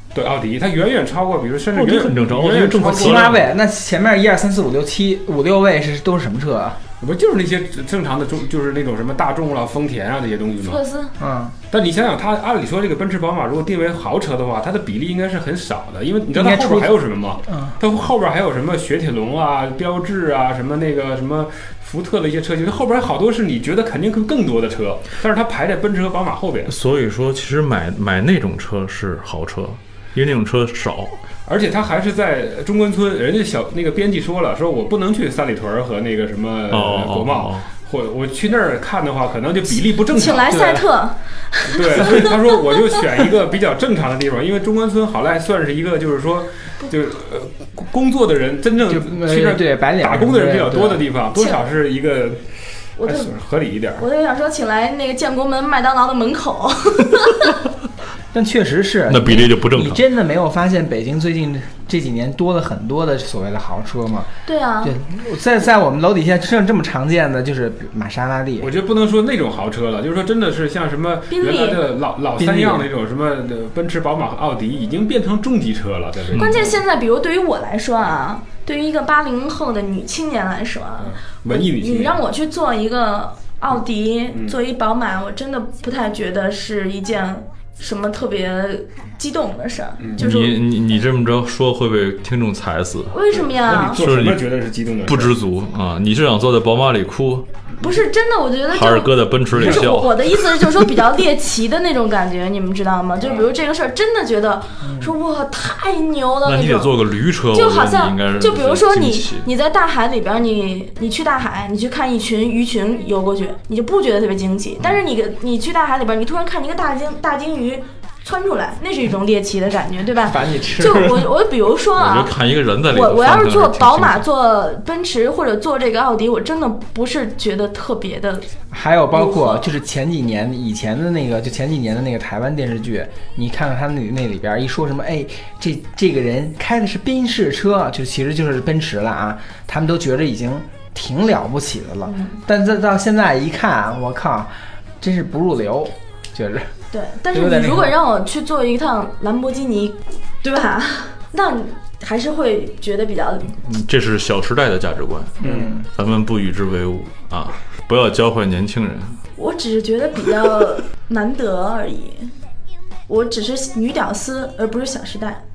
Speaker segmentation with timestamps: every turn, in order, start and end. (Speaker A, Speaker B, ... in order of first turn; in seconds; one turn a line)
Speaker A: 0.1-3.4
Speaker B: 1.7-3.5
Speaker C: 2.8-6.8
Speaker A: 7.0-10.8
Speaker D: 10.6-11.1
Speaker C: 11.2-11.6
Speaker A: 11.7-26.7
Speaker C: 16.3-17.8
Speaker B: 26.7-31.2
Speaker A: 31.4-40.8
Speaker B: 36.7-37.7
Speaker D: 40.0-42.4
Speaker A: 41.7-54.0
Speaker C: 48.9-51.0
Speaker D: 53.0-53.3
Speaker D: 54.0-57.5
Speaker C: 58.3-68.7
Speaker B: 59.1-60.0
Speaker D: 64.4-65.0
Speaker A: 68.6-76.8
Speaker D: 71.3-71.8
Speaker C: 72.4-72.9
Speaker D: 76.3-90.5
Speaker A: 81.0-82.2
Speaker A: 84.3-84.5
Speaker A: 90.0-90.3
Speaker B: 90.2-93.1
Speaker D: 93.1-94.0
Speaker A: 93.3-95.3
Speaker B: 93.8-94.5
Speaker B: 95.0-97.5
Speaker D: 97.8-106.9
Speaker B: 98.7-100.3
Speaker A: 99.5-99.9
Speaker A: 103.2-103.5
Speaker B: 106.4-109.5
Speaker D: 107.5-122.3
Speaker C: 120.2-121.3
Speaker B: 122.0-124.2
Speaker D: 122.9-128.5
Speaker C: 128.7-146.7
Speaker D: 129.1-129.6
Speaker D: 142.0-142.4
Speaker D: 146.9-153.5
Speaker C: 147.3-147.9
Speaker B: 153.6-159.2
Speaker C: 155.4-155.9
Speaker A: 155.4-155.7
Speaker D: 159.3-162.3
Speaker D: 163.1-165.4